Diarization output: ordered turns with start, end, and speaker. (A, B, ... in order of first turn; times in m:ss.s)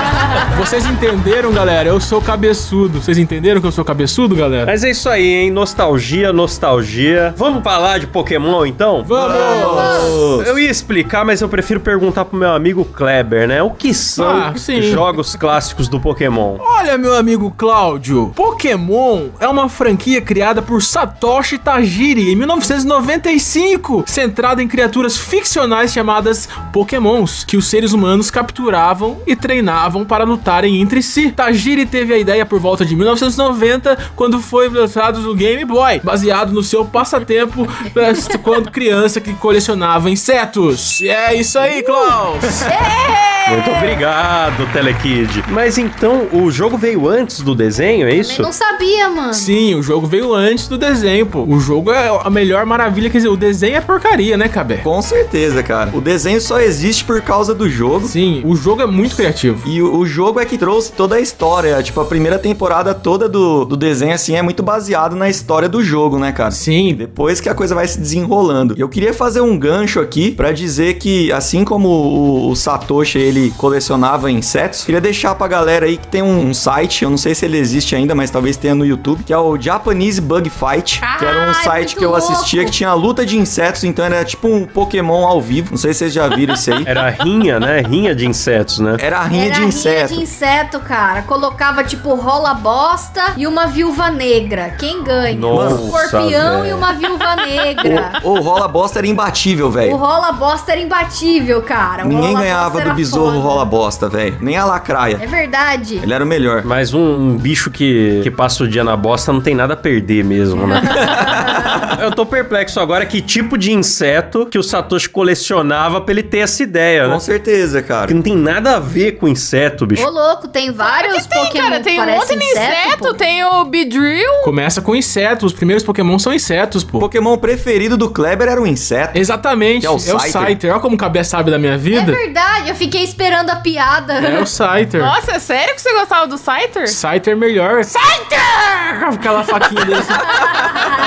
0:00.5-0:04.7 A
0:04.6-0:09.2 B
0:09.0-0:10.2 A
0:09.1-0:10.5 C
0:09.3-0:10.2 D
0:10.4-0:16.6 B
0:14.2-0:15.0 A
0:16.6-0:42.7 A
0:41.6-0:42.1 D
0:42.7-0:44.0 D
0:43.5-0:48.5 B
0:48.2-0:49.5 D
0:49.3-0:54.8 A
0:54.8-0:58.1 C
0:58.0-0:59.7 A
0:59.6-1:26.9 C
1:06.5-1:07.0 A
1:21.2-1:22.7 D
1:26.8-1:29.0 B
1:29.0-1:30.2 C
1:29.3-1:38.2 D
1:35.3-1:36.9 B
1:35.5-1:35.8 C
1:37.8-1:40.0 C
1:39.8-1:43.6 D
1:42.0-1:45.2 C
1:45.2-1:46.1 D
1:46.0-1:46.7 C
1:46.6-1:57.2 B
1:50.5-1:51.2 D
1:51.0-1:51.8 C
1:57.0-1:58.1 C
1:58.0-2:00.1 B
2:00.0-2:03.2 D
2:00.8-2:04.5 E
2:04.4-2:07.1 A
2:07.0-2:09.2 C
2:09.1-2:12.2 A
2:09.8-2:10.6 C
2:11.9-2:14.5 D
2:14.2-2:15.1 A
2:15.0-2:17.0 E
2:16.9-2:20.5 A